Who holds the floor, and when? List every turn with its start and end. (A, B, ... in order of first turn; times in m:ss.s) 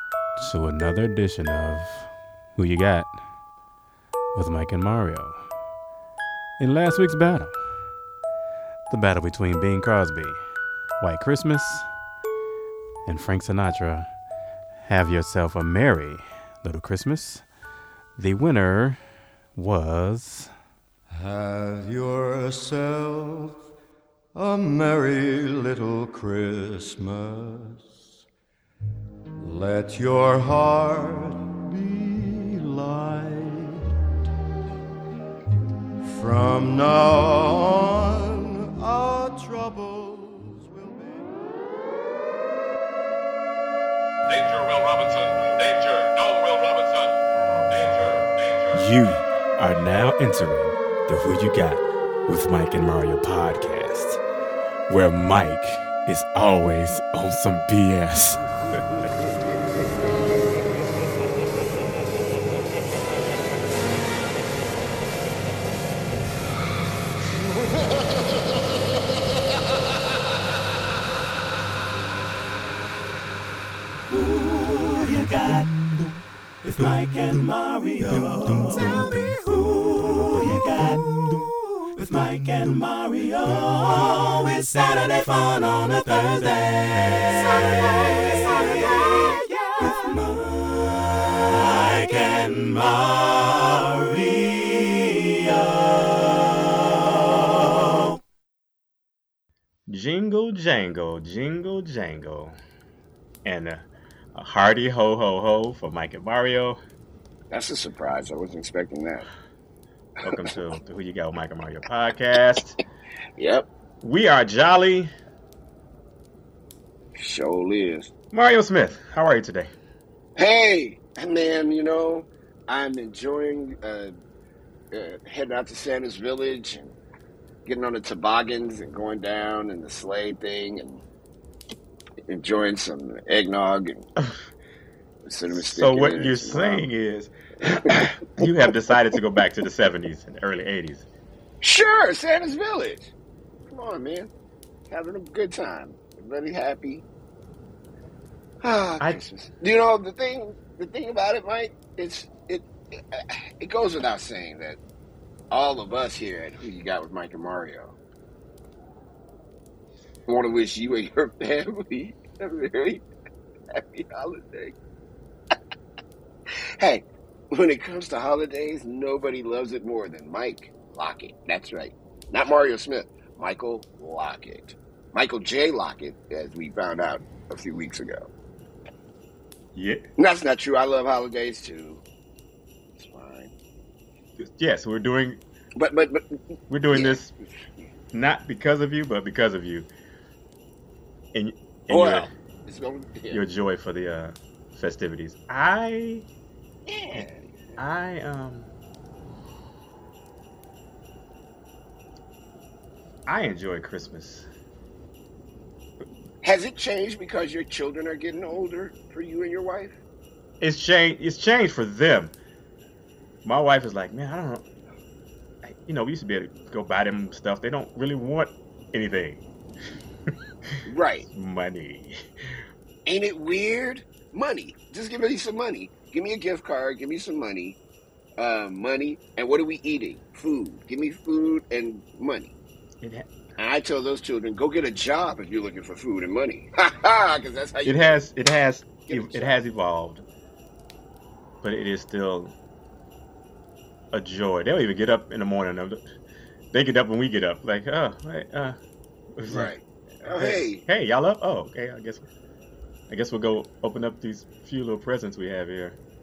0:00.4-0:03.2 A
0:04.3-0:05.4 A
0:06.6-0:07.6 A
0:08.9-0:10.4 A
0:11.0-0:11.9 A
0:13.1-0:14.1 A
0:14.9-0:17.5 A
0:18.2-0:19.0 A
0:19.6-0:20.5 A
0:21.1-0:23.6 B
0:24.3-0:27.9 B
0:29.4-0:33.9 B
0:36.1-0:41.4 B
0:44.3-0:47.2 C
0:47.7-0:48.8 C
0:48.7-0:54.2 A
0:54.9-0:58.5 A
1:14.3-1:15.6 D
1:16.8-1:18.5 D
1:18.6-1:19.0 A
1:19.7-1:20.0 D
1:22.2-1:23.2 D
1:23.5-1:24.1 A
1:24.5-1:26.5 D
1:25.6-1:27.6 A
1:28.6-1:29.3 D
1:31.7-1:34.7 A
1:32.1-1:32.4 D
1:39.9-1:42.6 A
1:43.4-1:46.8 A
1:47.5-1:49.3 E
1:50.2-1:52.8 A
1:53.4-1:53.7 E
1:54.0-1:55.1 A
1:57.2-1:58.1 E
1:58.3-1:59.7 A
2:00.4-2:04.1 E
2:04.9-2:07.0 E
2:07.7-2:11.0 E
2:12.3-2:14.1 E
2:15.2-2:16.9 E
2:15.5-2:21.1 A
2:17.8-2:18.4 E
2:21.6-2:23.1 E
2:23.7-2:24.3 E
2:24.9-2:27.1 E
2:28.6-2:34.8 E
2:35.5-2:38.0 E
2:40.3-2:43.0 E
2:43.7-2:44.8 E
2:46.8-2:58.3 E
2:59.8-3:00.0 A
3:00.2-3:02.0 E
3:03.0-3:03.5 E
3:04.4-3:05.4 A
3:05.8-3:07.9 E
3:06.7-3:07.3 A
3:08.1-3:09.9 A
3:11.3-3:12.3 A
3:11.9-3:13.4 E
3:13.3-3:16.3 A
3:16.9-3:17.6 E
3:17.8-3:18.7 A
3:23.3-3:24.5 A
3:26.4-3:30.0 E
3:30.6-3:32.3 A
3:33.4-3:34.6 A
3:35.6-3:39.4 A
3:40.9-3:41.3 E
3:41.3-3:42.2 A
3:43.1-3:47.8 E
3:48.4-3:52.5 E
3:53.0-3:53.3 A
3:53.6-3:58.2 E
3:57.8-4:00.2 A
3:59.1-3:59.6 E
4:01.6-4:02.5 A
4:04.1-4:06.0 A
4:06.7-4:08.8 A
4:09.4-4:09.7 A
4:09.5-4:10.8 E
4:10.3-4:12.3 A
4:13.1-4:16.0 A